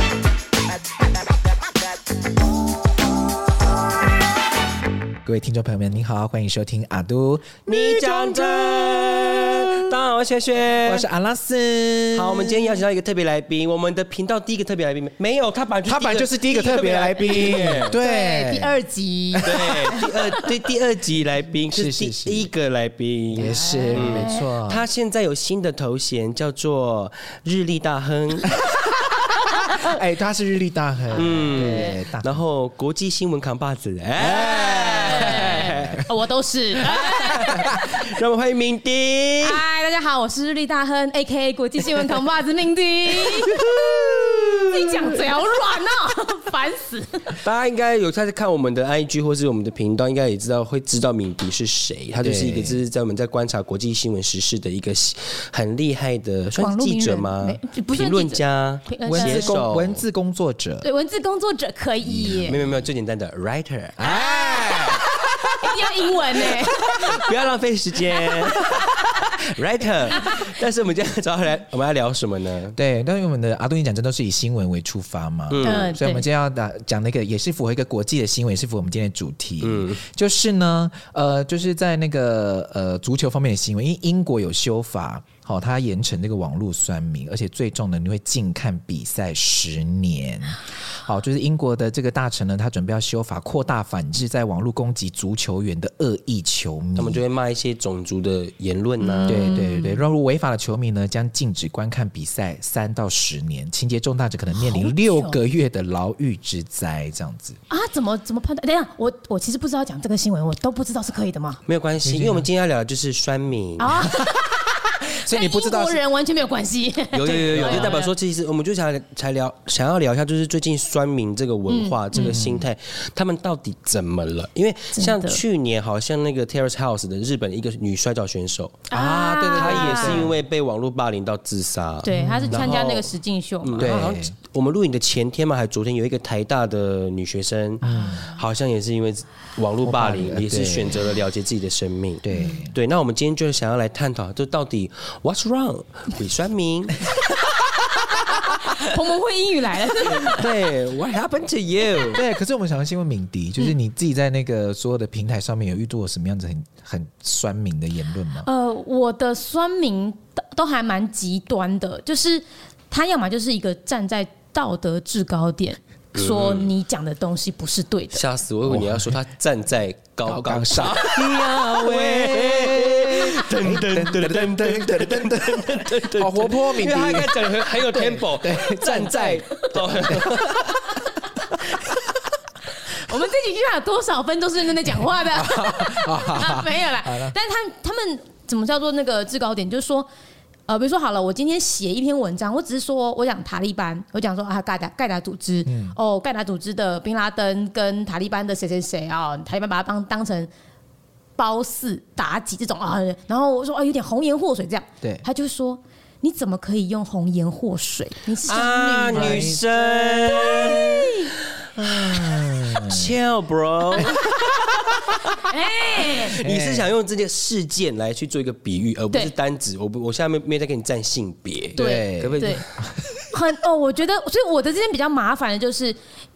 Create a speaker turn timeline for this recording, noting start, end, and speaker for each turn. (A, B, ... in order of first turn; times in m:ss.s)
0:05.2-0:09.7 A
0:07.7-0:11.0 B
0:10.8-0:12.8 A
0:12.1-0:18.0 B
0:15.9-0:18.8 A
0:17.4-0:20.4 C
0:19.4-0:28.6 B
0:21.7-0:22.5 A
0:23.4-0:24.5 C
0:23.4-0:24.8 A
0:28.6-0:32.4 A
0:31.1-0:32.0 C
0:31.2-0:36.0 B
0:34.2-0:36.0 A
0:35.1-0:37.8 C
0:37.0-0:37.8 A
0:37.0-0:39.6 B
0:39.4-0:43.7 C
0:43.5-0:44.7 B
0:43.7-0:44.4 A
0:44.6-0:47.4 C
0:47.4-1:00.0 B
0:52.2-0:52.8 A
0:56.6-0:59.8 C
0:59.0-1:00.9 A
1:00.8-1:02.6 C
1:02.0-1:02.8 A
1:02.4-1:04.0 B
1:04.0-1:07.3 A
1:04.0-1:07.1 C
1:06.9-1:08.7 B
1:08.6-1:09.2 A
1:08.6-1:09.1 C
1:09.5-1:12.8 B
1:12.8-1:37.2 A
1:15.5-1:15.9 B
1:15.6-1:16.3 C
1:19.6-1:20.0 B
1:37.0-1:39.6 B
1:39.0-1:40.0 C
1:39.3-1:47.6 A
1:44.5-1:45.4 C
1:47.7-1:51.6 C
1:51.7-1:54.0 B
1:52.0-1:52.5 A
1:53.8-1:58.1 C
1:55.2-1:56.0 A
1:57.1-2:08.9 B
1:57.4-1:58.0 A
2:01.7-2:02.4 C
2:02.2-2:02.7 A
2:05.0-2:05.4 C
2:08.9-2:10.3 C
2:08.9-2:10.4 A
2:09.6-2:13.1 B
2:12.0-2:13.9 C
2:12.1-2:12.8 A
2:13.6-2:27.5 B
2:13.8-2:14.3 A
2:17.8-2:18.3 A
2:17.9-2:18.2 C
2:19.8-2:21.2 A
2:22.2-2:22.7 A
2:22.3-2:22.6 C
2:28.4-2:30.4 C
2:30.0-2:32.2 B
2:32.1-2:38.5 A
2:38.4-2:48.2 C
2:46.2-2:46.7 B
2:48.1-3:00.7 B
2:48.7-2:49.2 A
2:50.3-3:01.0 A
3:02.9-3:10.1 C
3:05.3-3:07.4 A
3:10.7-3:20.5 C
3:15.7-3:16.0 A
3:21.4-3:29.6 C
3:28.4-3:31.2 B
3:29.1-3:30.8 A
3:30.3-3:31.1 C
3:31.8-3:33.1 A
3:31.8-3:34.3 B
3:34.0-3:35.4 A
3:35.3-3:36.4 C
3:36.1-3:42.6 B
3:36.2-3:36.9 A
3:41.8-3:43.3 A
3:41.8-3:42.6 C
3:43.3-3:46.0 C